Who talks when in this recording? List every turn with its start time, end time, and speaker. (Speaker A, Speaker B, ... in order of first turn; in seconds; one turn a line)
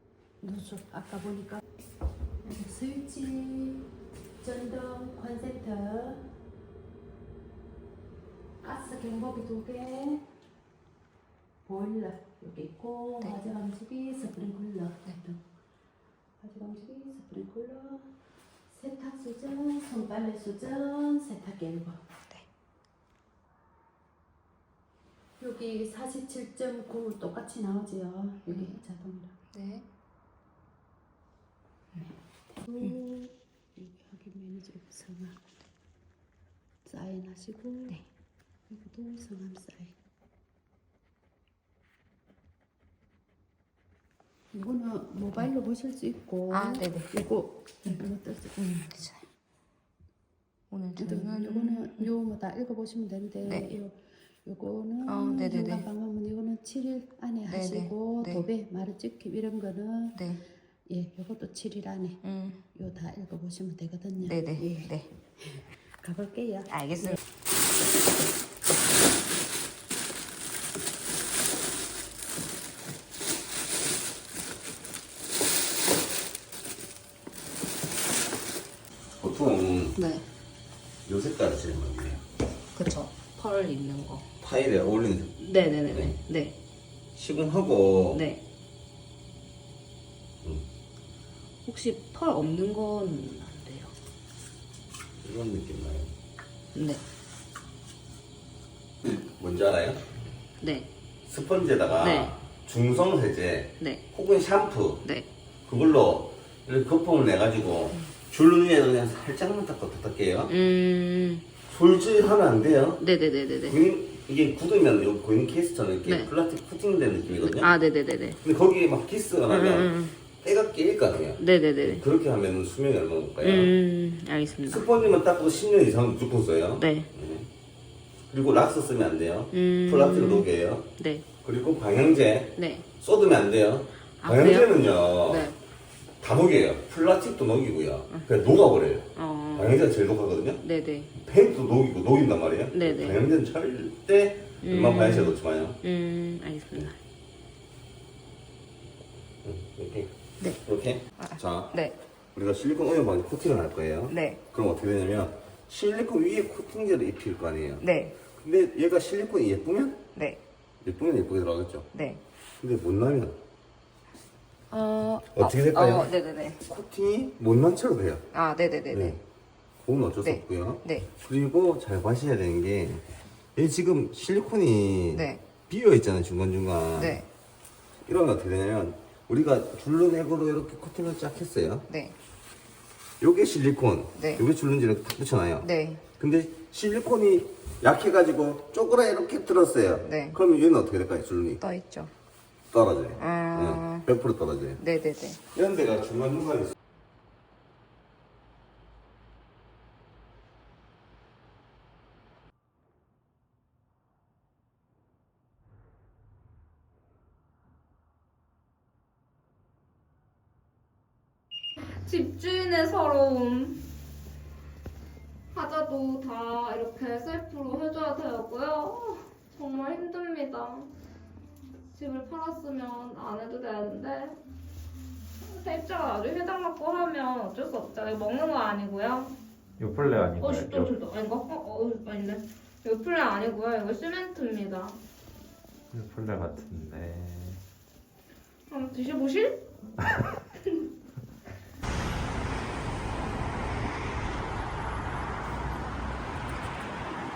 Speaker A: 0.4-1.6
Speaker A: 2.4-3.9
Speaker A: 4.4-6.3
Speaker A: 8.6-10.3
Speaker A: 11.7-15.4
Speaker A: 16.4-18.1
Speaker A: 18.7-22.0
Speaker A: 25.4-29.4
Speaker B: 28.5-28.8
Speaker B: 29.5-29.9
Speaker A: 32.0-35.4
Speaker A: 36.9-38.0
Speaker A: 38.7-39.9
Speaker A: 44.5-48.6
Speaker B: 46.5-47.1
Speaker B: 48.6-49.2
Speaker B: 50.7-52.1
Speaker A: 51.0-60.2
Speaker B: 53.5-53.7
Speaker B: 55.1-55.9
Speaker B: 57.5-58.4
Speaker B: 60.1-60.4
Speaker A: 60.9-62.2
Speaker B: 62.2-62.6
Speaker A: 62.8-67.2
Speaker B: 64.2-65.1
Speaker B: 66.7-67.2
Speaker C: 79.2-80.0
Speaker B: 80.0-80.2
Speaker C: 81.1-82.2
Speaker B: 82.8-84.2
Speaker C: 84.4-86.2
Speaker B: 85.4-86.5
Speaker C: 87.2-88.2
Speaker B: 88.1-88.4
Speaker B: 91.7-93.9
Speaker C: 95.2-96.1
Speaker B: 96.8-97.0
Speaker C: 99.4-100.0
Speaker B: 100.6-100.9
Speaker C: 101.3-105.0
Speaker B: 102.0-102.3
Speaker C: 105.7-110.5
Speaker B: 110.5-111.5
Speaker C: 111.7-113.0
Speaker B: 113.0-113.8
Speaker C: 113.6-117.7
Speaker B: 116.0-116.3
Speaker B: 117.4-118.4
Speaker C: 118.4-123.7
Speaker B: 119.5-120.2
Speaker B: 121.4-122.0
Speaker B: 123.4-124.9
Speaker C: 124.7-127.5
Speaker B: 126.8-127.1
Speaker C: 128.3-130.9
Speaker B: 129.5-131.2
Speaker C: 131.4-135.4
Speaker B: 132.6-132.9
Speaker B: 134.2-135.6
Speaker C: 136.2-140.6
Speaker B: 139.2-139.8
Speaker B: 140.6-141.1
Speaker C: 141.2-145.8
Speaker B: 142.7-143.2
Speaker B: 144.6-146.9
Speaker C: 149.4-151.7
Speaker B: 151.2-152.0
Speaker C: 152.3-160.0
Speaker B: 154.1-154.4
Speaker B: 157.8-158.2
Speaker B: 160.1-160.4
Speaker C: 160.8-161.9
Speaker B: 161.9-162.2
Speaker C: 162.6-163.4
Speaker B: 164.7-166.6
Speaker C: 165.3-166.1
Speaker C: 166.7-168.2
Speaker B: 168.3-169.2
Speaker C: 168.9-169.2
Speaker C: 169.8-177.2
Speaker B: 170.2-171.1
Speaker B: 175.1-175.4
Speaker B: 177.0-177.3
Speaker C: 178.1-181.9
Speaker B: 181.9-182.2
Speaker C: 183.2-191.6
Speaker B: 184.2-184.4
Speaker B: 185.6-186.0
Speaker B: 190.1-190.4
Speaker B: 191.6-192.1
Speaker C: 192.7-194.8
Speaker B: 193.2-194.1
Speaker B: 194.8-195.4
Speaker C: 195.5-196.8
Speaker D: 211.8-213.9
Speaker D: 215.5-220.9
Speaker D: 221.9-224.4
Speaker D: 225.4-229.4
Speaker E: 229.8-230.9
Speaker D: 230.4-235.0
Speaker E: 235.9-237.6
Speaker D: 238.7-239.6